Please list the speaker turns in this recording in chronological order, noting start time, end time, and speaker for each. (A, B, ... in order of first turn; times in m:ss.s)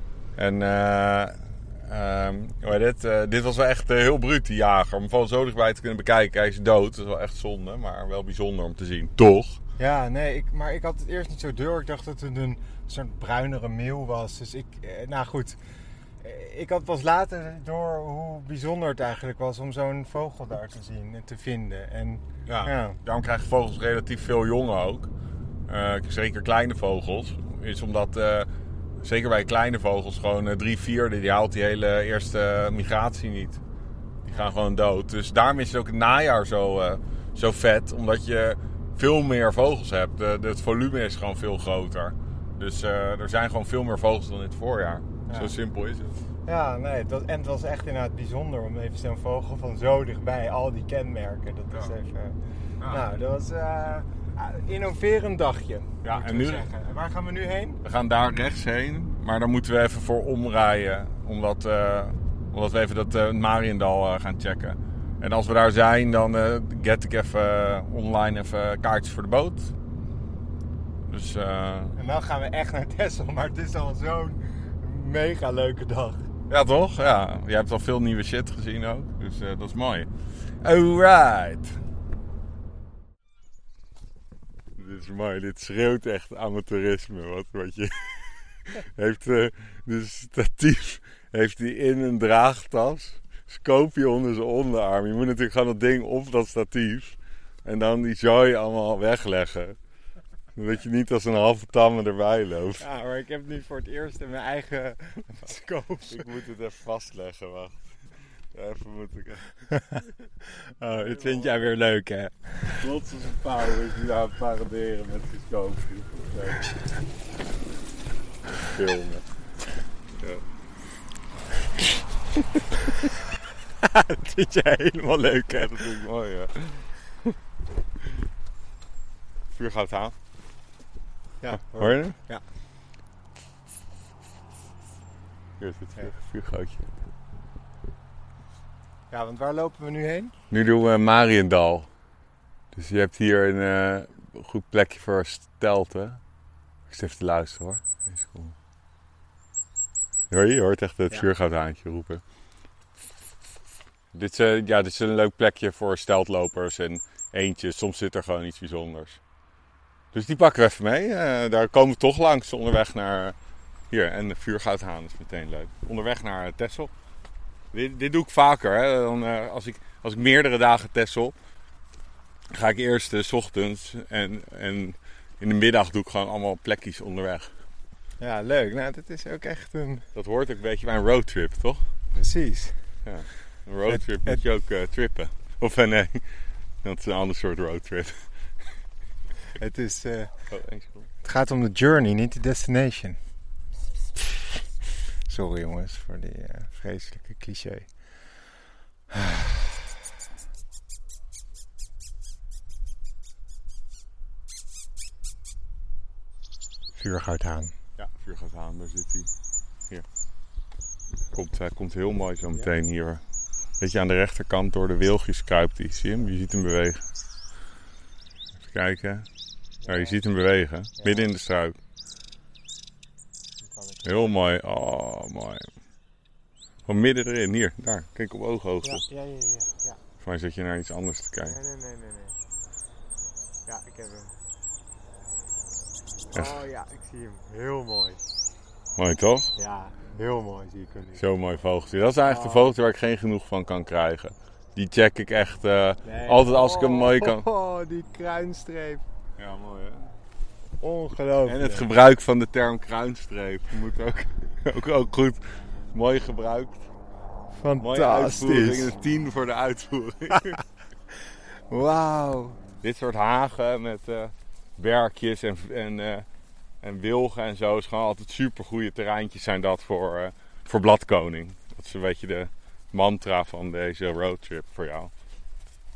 0:00.4-0:09.6 A
0:09.8-0:15.6 B
0:16.2-0:23.0 B
0:22.5-0:25.1 A
0:25.7-0:28.5 A
0:29.0-0:33.6 A
0:34.2-0:46.2 A
0:45.3-0:45.5 B
0:46.5-0:57.8 B
0:56.0-0:56.7 A
0:57.8-1:09.7 A
1:11.1-1:12.0 A
1:12.0-1:16.3 B
1:16.5-1:20.1 A
1:20.6-1:21.8 A
1:24.8-1:39.8 A
1:40.6-1:42.8 A
1:42.8-1:46.2 B
1:46.1-1:49.7 A
1:50.7-1:52.8 B
1:50.9-1:51.7 A
1:52.7-1:56.7 A
1:58.6-1:59.2 A
2:00.1-2:00.4 A
2:03.8-2:06.0 B
2:05.5-2:07.3 A
2:09.5-2:10.2 A
2:11.4-2:12.4 B
2:11.6-2:12.2 A
2:15.6-2:16.9 A
2:19.1-2:20.3 B
2:20.5-2:21.9 A
2:22.7-2:26.2 A
2:26.9-2:28.6 A
2:30.3-2:32.2 A
2:34.1-2:39.2 A
2:40.1-2:43.4 A
2:43.9-2:46.9 A
2:47.7-2:51.4 A
2:52.5-2:57.5 A
2:58.2-3:00.1 B
3:00.2-3:01.8 A
3:02.1-3:02.9 B
3:03.0-3:06.3 A
3:03.9-3:04.4 B
3:06.8-3:08.7 A
3:09.6-3:10.4 B
3:10.5-3:11.1 A
3:11.2-3:13.2 B
3:15.3-3:18.3 B
3:19.1-3:19.7 B
3:27.0-3:27.7 B
3:28.0-3:29.3 A
3:31.3-3:33.2 A
3:33.8-3:37.0 A
3:38.7-3:39.3 A
3:39.8-3:40.2 B
3:39.9-3:41.8 A
3:41.0-3:41.3 B
3:43.6-3:44.3 B
3:44.0-3:45.7 A
3:46.9-3:49.0 A
3:48.8-3:50.0 B
3:50.2-3:51.6 A
3:51.4-3:52.4 B
3:53.7-3:54.3 B
3:56.3-3:58.2 B
3:59.0-3:59.5 A
3:59.6-4:01.2 B
4:01.2-4:07.4 A
4:02.2-4:02.7 B
4:06.0-4:09.0 B
4:09.4-4:10.1 A
4:10.8-4:11.9 B
4:11.5-4:16.9 A
4:17.5-4:19.0 B
4:17.8-4:20.6 A
4:21.7-4:22.6 B
4:22.8-4:26.3 A
4:26.8-4:35.1 A